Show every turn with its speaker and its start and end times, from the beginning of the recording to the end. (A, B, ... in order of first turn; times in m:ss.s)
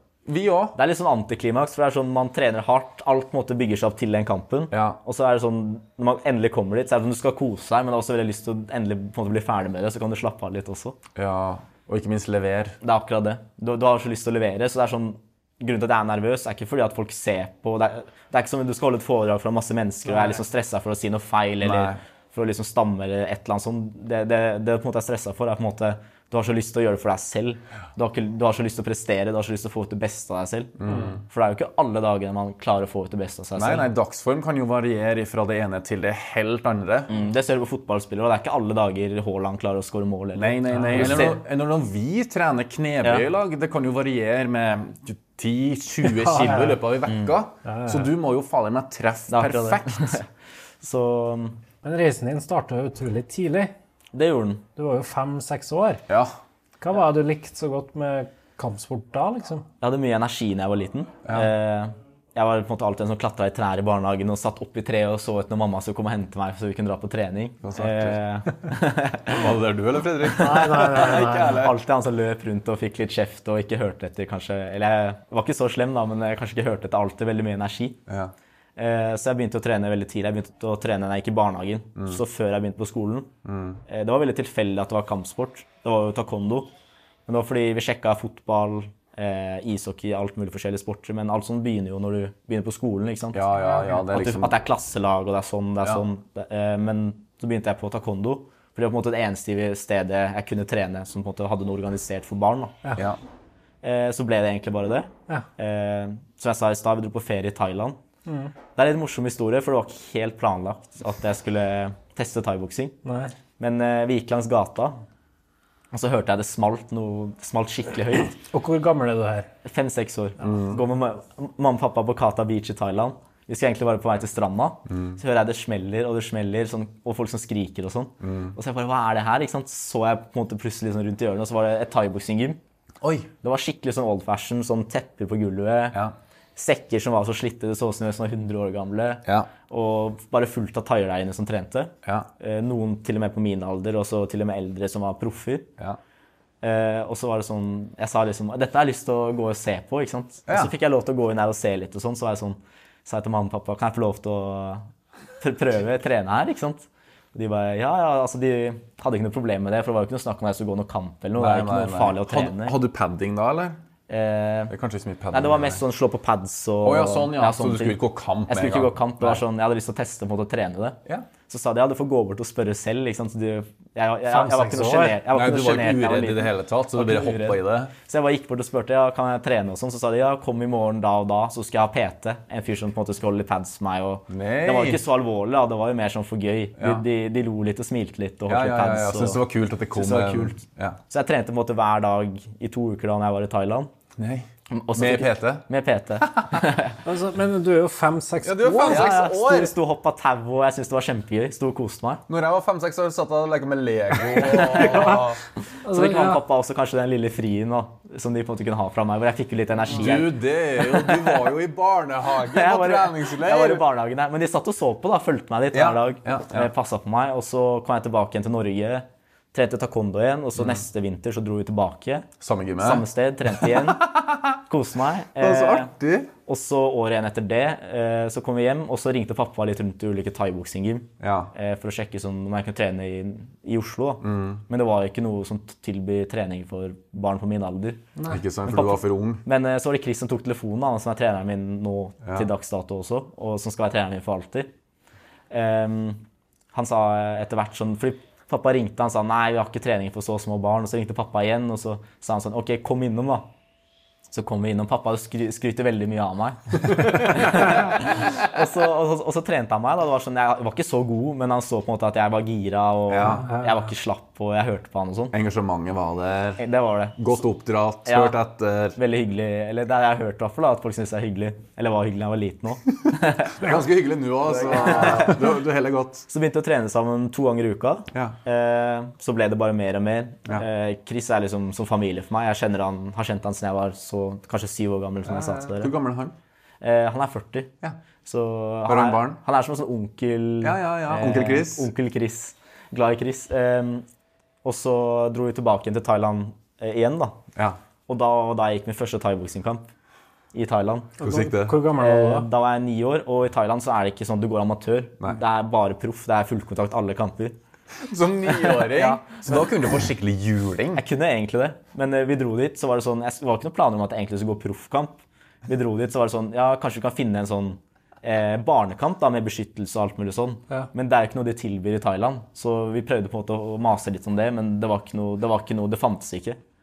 0:00.3-0:00.8 A
0:00.8-0:11.0 B
0:04.7-0:05.0 A
0:11.1-0:12.8 A
0:12.8-0:33.9 B
0:21.6-0:22.0 A
0:30.8-0:31.2 A
0:33.6-0:37.1 A
0:37.1-0:41.4 B
0:40.4-0:50.2 A
0:40.7-0:41.2 C
0:46.1-0:46.8 C
0:47.6-0:48.1 C
0:49.3-0:50.2 B
0:50.8-0:51.6 B
0:51.8-0:53.7 C
0:54.1-0:54.6 B
0:54.8-0:56.0 C
0:56.1-0:56.3 A
0:56.8-0:59.6 C
0:59.8-1:09.5 B
1:07.6-1:08.2 A
1:09.3-1:11.7 A
1:10.2-1:18.0 B
1:10.3-1:11.6 C
1:18.1-1:18.3 A
1:18.8-1:23.3 B
1:23.4-1:23.8 A
1:23.9-1:26.7 B
1:27.3-1:42.8 B
1:33.3-1:34.5 A
1:43.8-1:48.0 B
1:48.2-1:48.5 C
1:48.7-1:53.0 B
1:53.0-1:53.3 C
1:53.6-1:54.9 B
1:55.9-1:58.4 B
1:58.4-1:59.5 C
1:59.6-2:12.6 B
2:00.4-2:00.8 A
2:04.9-2:05.2 A
2:08.2-2:08.6 A
2:13.0-2:13.3 A
2:13.4-2:16.0 B
2:16.6-2:25.7 B
2:22.0-2:22.3 A
2:26.6-2:34.8 B
2:30.5-2:30.7 A
2:35.4-2:42.8 B
2:41.4-2:43.8 A
2:44.1-2:44.7 B
2:44.7-2:45.8 A
2:45.3-3:09.4 B
2:46.8-2:49.4 A
2:54.3-2:55.2 C
2:55.3-2:57.9 A
3:04.3-3:05.0 A
3:06.8-3:07.0 A
3:08.5-3:11.0 A
3:09.9-3:13.9 B
3:14.2-3:15.6 A
3:14.7-3:17.0 B
3:16.2-3:16.6 A
3:17.0-3:19.5 C
3:18.4-3:19.7 A
3:18.6-3:22.2 B
3:22.3-3:25.4 A
3:24.3-3:25.2 B
3:25.8-3:31.5 B
3:25.8-3:26.4 C
3:29.9-3:33.8 A
3:32.3-3:44.1 B
3:35.7-3:36.7 A
3:42.4-3:44.5 A
3:44.7-3:45.9 B
3:45.4-3:46.3 A
3:46.4-3:58.0 B
3:51.2-3:51.5 A
3:54.2-3:54.6 A
3:58.3-3:59.4 A
3:58.7-4:04.7 B
4:02.2-4:02.5 A
4:05.5-4:06.2 B
4:06.7-4:13.5 B
4:14.3-4:25.3 B
4:16.9-4:17.8 A
4:23.1-4:23.5 A
4:23.3-4:23.7 C
4:25.3-4:26.6 A
4:26.6-4:27.3 B
4:27.2-4:29.0 A
4:28.0-4:28.4 B
4:29.0-4:33.6 B
4:33.1-4:36.3 A
4:34.5-4:35.5 B
4:36.3-4:45.9 B
4:45.3-4:46.3 A
4:46.8-4:47.7 B
4:48.2-4:54.0 B
4:48.8-4:49.4 A
4:50.6-4:51.9 A
4:54.6-4:57.4 B
4:58.1-4:59.9 B
5:00.5-5:01.2 B
5:01.2-5:01.8 A
5:01.2-5:02.5 C
5:01.9-5:07.6 B
5:08.0-5:11.0 A
5:08.5-5:10.0 B
5:10.9-5:26.6 B